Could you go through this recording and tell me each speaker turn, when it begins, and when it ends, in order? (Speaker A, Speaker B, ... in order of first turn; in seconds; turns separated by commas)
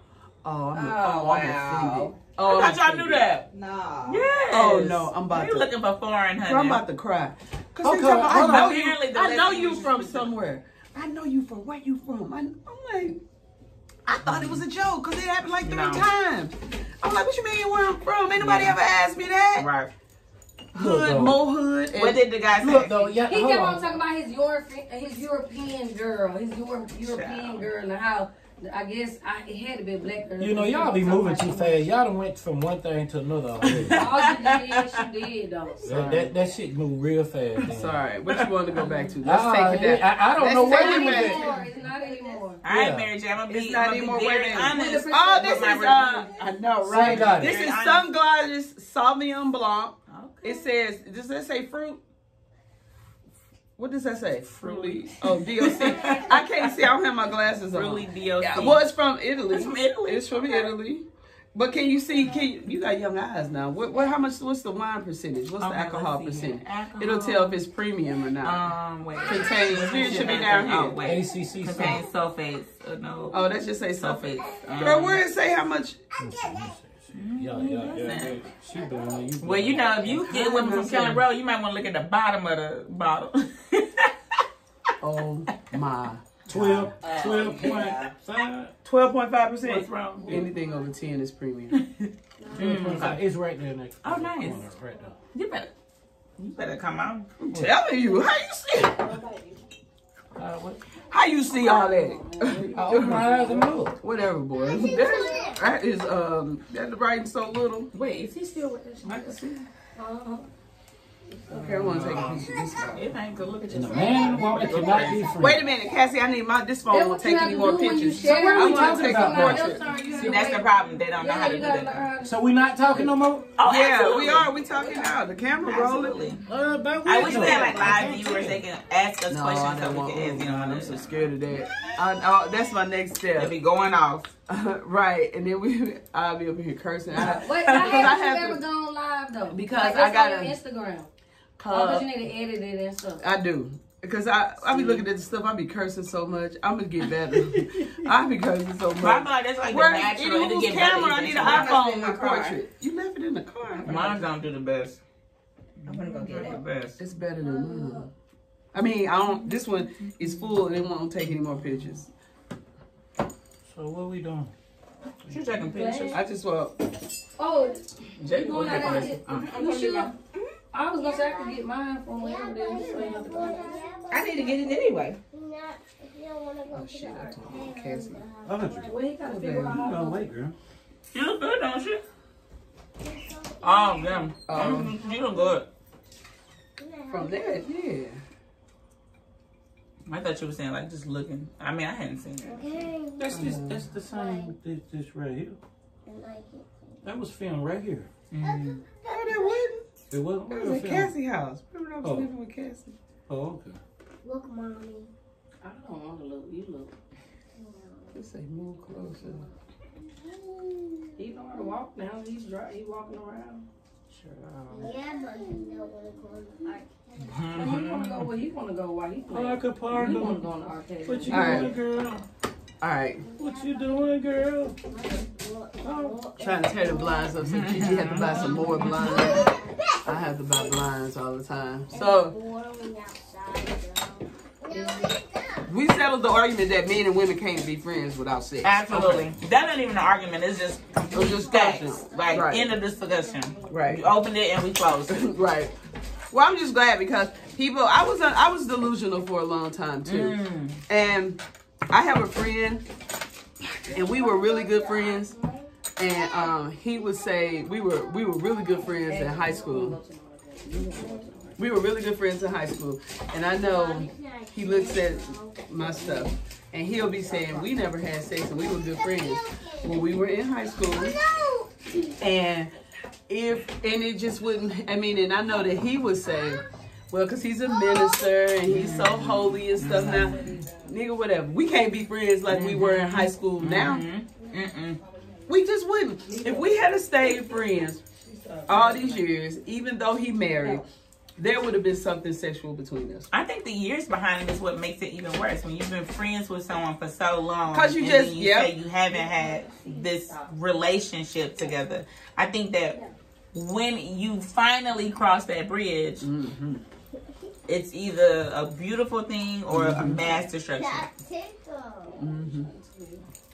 Speaker A: 0.4-3.3, Speaker B: 0.7-2.1, Speaker C: 2.4-3.5, Speaker B: 3.5-4.3, Speaker C: 4.1-6.8, Speaker A: 4.5-5.7, Speaker A: 6.5-13.2, Speaker D: 7.8-8.8, Speaker C: 8.2-10.3, Speaker A: 14.1-19.7, Speaker C: 14.3-14.6, Speaker C: 15.6-16.1, Speaker C: 18.4-18.8, Speaker C: 19.6-19.9, Speaker D: 20.8-21.4, Speaker A: 20.8-22.2, Speaker C: 21.9-22.9, Speaker D: 22.5-24.0, Speaker E: 23.3-31.8, Speaker C: 27.1-27.6, Speaker D: 30.4-34.0, Speaker C: 33.6-35.0, Speaker E: 33.9-36.3, Speaker D: 35.8-38.0, Speaker A: 35.9-36.3, Speaker A: 37.6-41.6, Speaker C: 38.4-38.9, Speaker D: 39.2-41.5, Speaker E: 40.6-42.6, Speaker F: 41.2-42.5, Speaker C: 42.6-46.3, Speaker D: 42.6-43.1, Speaker A: 43.5-52.0, Speaker D: 46.8-47.6, Speaker C: 46.9-48.1, Speaker C: 50.1-50.7, Speaker A: 53.8-61.0, Speaker C: 54.6-56.8, Speaker C: 57.7-58.9, Speaker C: 59.5-60.7, Speaker A: 61.5-68.7, Speaker C: 65.6-67.6, Speaker C: 68.4-73.4, Speaker A: 69.2-71.0, Speaker D: 69.7-72.0, Speaker A: 73.3-74.2, Speaker C: 74.0-75.2, Speaker F: 74.6-75.0, Speaker A: 74.8-76.0, Speaker D: 76.2-80.3, Speaker F: 76.2-76.7, Speaker C: 77.1-78.4, Speaker C: 79.4-84.4, Speaker A: 80.1-81.2, Speaker A: 85.0-86.9, Speaker D: 86.5-88.7, Speaker B: 87.0-88.1, Speaker A: 88.8-91.8, Speaker C: 89.6-90.5, Speaker C: 91.7-93.2, Speaker D: 92.5-95.2, Speaker C: 94.0-94.7, Speaker C: 95.3-95.7, Speaker C: 96.4-97.3, Speaker A: 97.4-99.2, Speaker D: 100.3-100.8, Speaker A: 101.1-103.2, Speaker E: 101.7-103.5, Speaker D: 102.6-104.0, Speaker A: 104.0-107.9, Speaker F: 104.6-105.7, Speaker C: 107.9-109.6, Speaker A: 109.1-109.6, Speaker E: 110.0-110.5, Speaker A: 111.5-113.1, Speaker C: 111.5-115.3, Speaker D: 111.8-112.3, Speaker D: 113.7-115.6, Speaker A: 115.2-120.3, Speaker E: 116.9-122.3, Speaker D: 118.3-119.8, Speaker C: 120.2-122.1, Speaker D: 122.2-123.5, Speaker C: 123.6-124.6, Speaker A: 123.7-126.2, Speaker C: 125.6-126.4, Speaker D: 126.5-128.6, Speaker C: 127.0-131.1, Speaker A: 129.3-133.5, Speaker C: 133.4-134.3, Speaker A: 134.5-138.6, Speaker C: 137.2-138.1, Speaker E: 137.2-141.1, Speaker A: 139.5-140.6, Speaker A: 141.6-142.1, Speaker E: 141.7-143.2, Speaker A: 143.2-154.2, Speaker C: 149.0-151.8, Speaker B: 151.4-152.6, Speaker B: 153.7-154.2, Speaker C: 153.8-155.0, Speaker C: 155.8-157.0, Speaker B: 155.9-156.6, Speaker A: 157.0-158.1, Speaker A: 158.7-162.1, Speaker C: 159.2-160.5, Speaker D: 163.7-164.5, Speaker D: 165.3-165.7, Speaker C: 165.3-166.2, Speaker E: 165.7-166.2, Speaker A: 166.1-166.8, Speaker E: 167.4-170.1, Speaker C: 168.2-170.2, Speaker B: 169.3-169.9, Speaker E: 170.7-173.8, Speaker F: 171.0-174.8, Speaker B: 174.1-175.2, Speaker F: 175.3-179.0, Speaker A: 176.7-178.2, Speaker D: 178.5-180.6, Speaker E: 178.8-180.3, Speaker C: 181.1-182.0, Speaker F: 183.0-185.5, Speaker C: 183.6-185.7, Speaker A: 184.5-184.9, Speaker F: 186.8-187.7, Speaker A: 187.1-188.2, Speaker C: 190.1-192.6, Speaker F: 192.4-194.5, Speaker D: 193.2-195.6, Speaker A: 193.3-193.8, Speaker F: 196.1-196.7, Speaker D: 197.0-198.1, Speaker C: 198.3-198.8, Speaker F: 198.4-199.7, Speaker A: 199.1-199.8, Speaker D: 200.1-201.1, Speaker A: 200.5-202.9, Speaker D: 202.0-202.3, Speaker D: 203.3-203.8, Speaker F: 204.2-205.1, Speaker E: 205.6-206.9, Speaker F: 207.6-208.2, Speaker A: 208.1-209.4, Speaker F: 210.2-211.2, Speaker E: 211.2-213.7, Speaker D: 214.2-215.0, Speaker F: 214.8-217.5, Speaker C: 217.2-218.3, Speaker E: 217.6-221.7, Speaker D: 219.3-220.5, Speaker D: 221.1-222.2, Speaker A: 221.3-221.7, Speaker A: 222.8-223.2, Speaker F: 223.2-224.2, Speaker D: 223.4-224.8, Speaker F: 224.8-230.7, Speaker D: 225.8-226.2, Speaker A: 226.4-232.4, Speaker C: 227.4-229.4, Speaker F: 231.9-235.7, Speaker E: 234.7-235.1, Speaker A: 235.7-239.3, Speaker C: 238.6-245.3, Speaker A: 241.1-242.7, Speaker F: 241.7-244.0, Speaker A: 243.7-244.0, Speaker A: 245.1-245.7, Speaker A: 246.3-252.8, Speaker C: 250.1-250.8, Speaker A: 253.9-255.3, Speaker F: 253.9-258.9, Speaker A: 256.0-260.0, Speaker E: 259.1-261.6, Speaker F: 260.8-261.3, Speaker A: 261.6-271.2, Speaker F: 263.5-266.3, Speaker F: 267.2-267.6, Speaker E: 267.3-267.7, Speaker F: 268.4-272.2, Speaker A: 272.2-272.7, Speaker A: 273.3-284.1, Speaker F: 276.2-276.6, Speaker F: 277.6-278.5, Speaker C: 278.7-280.6, Speaker E: 280.2-280.8, Speaker C: 282.5-285.0, Speaker A: 285.5-288.0, Speaker E: 286.2-286.9, Speaker E: 288.2-288.9, Speaker A: 288.7-290.8, Speaker A: 291.4-293.3, Speaker C: 293.3-303.0, Speaker A: 297.7-298.8, Speaker E: 299.4-300.5, Speaker C: 303.5-306.3, Speaker A: 306.2-306.8, Speaker C: 307.7-311.1, Speaker A: 309.7-310.4, Speaker F: 310.7-312.3, Speaker E: 312.1-313.2, Speaker A: 312.2-312.7